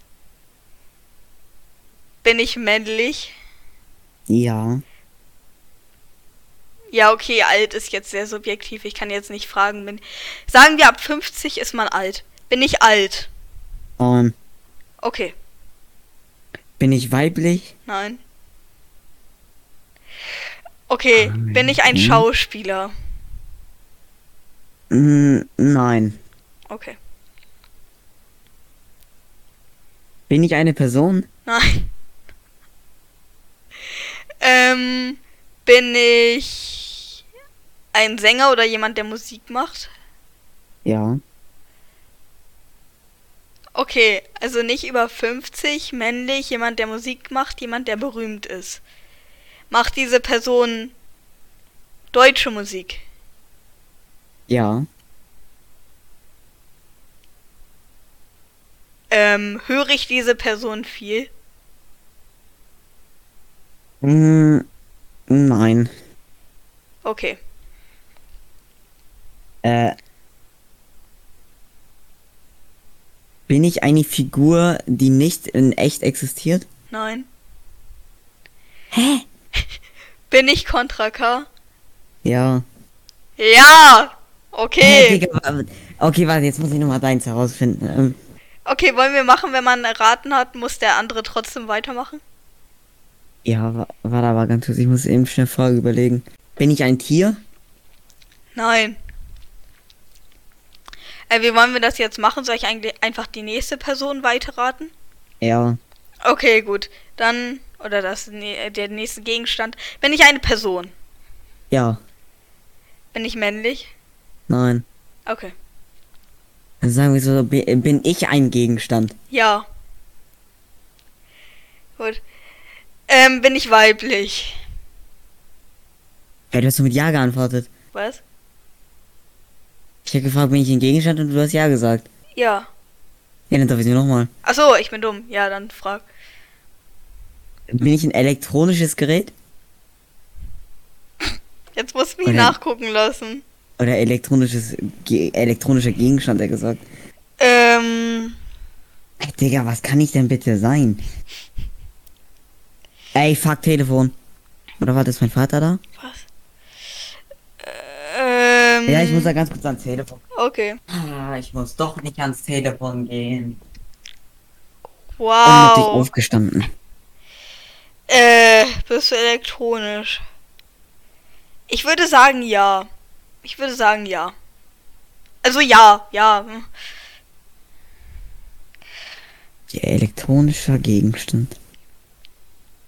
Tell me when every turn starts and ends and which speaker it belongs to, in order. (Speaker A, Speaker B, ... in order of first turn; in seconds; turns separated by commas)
Speaker A: 2.2-3.3, Speaker B: 4.3-4.8, Speaker A: 6.9-13.3, Speaker B: 14.0-14.3, Speaker A: 15.0-15.3, Speaker B: 16.8-17.7, Speaker A: 17.9-18.2, Speaker A: 20.9-22.9, Speaker B: 21.2-22.3, Speaker B: 24.9-26.2, Speaker A: 26.7-27.0, Speaker B: 30.3-31.3, Speaker A: 31.5-31.9, Speaker A: 34.4-37.0, Speaker A: 37.9-39.9, Speaker B: 40.9-41.2, Speaker A: 43.8-48.8, Speaker A: 49.7-50.9, Speaker A: 52.1-53.0, Speaker B: 54.5-54.9, Speaker A: 59.1-61.3, Speaker B: 64.0-64.7, Speaker B: 65.3-65.9, Speaker A: 67.0-67.4, Speaker B: 69.6-70.0, Speaker B: 73.5-76.7, Speaker A: 76.9-77.3, Speaker B: 78.9-79.2, Speaker A: 80.3-81.5, Speaker B: 82.2-82.6, Speaker A: 83.4-85.2, Speaker B: 84.8-88.2, Speaker A: 88.7-92.2, Speaker B: 93.5-97.4, Speaker A: 98.6-99.0, Speaker A: 101.3-104.9, Speaker B: 105.4-105.8, Speaker A: 106.2-110.9, Speaker B: 111.7-112.0, Speaker A: 113.1-113.9, Speaker B: 114.5-114.8, Speaker A: 115.3-115.5, Speaker B: 116.8-119.2, Speaker A: 119.3-119.7, Speaker A: 123.1-124.6, Speaker B: 126.5-127.7, Speaker A: 127.9-128.2, Speaker B: 130.1-132.1, Speaker A: 132.4-132.7, Speaker B: 133.5-134.3, Speaker A: 134.4-136.1, Speaker B: 137.7-139.3, Speaker A: 141.8-143.4, Speaker B: 142.2-142.6, Speaker B: 143.8-146.8, Speaker A: 147.4-148.4, Speaker B: 149.2-151.0, Speaker B: 153.1-154.1, Speaker B: 154.8-155.8, Speaker A: 156.0-156.3, Speaker A: 157.6-159.3, Speaker B: 158.9-160.2, Speaker A: 160.3-160.8, Speaker B: 160.9-163.6, Speaker A: 165.2-166.1, Speaker B: 165.4-166.7, Speaker A: 168.1-170.2, Speaker A: 171.7-172.9, Speaker A: 173.4-174.3, Speaker A: 175.4-176.7, Speaker B: 179.7-181.6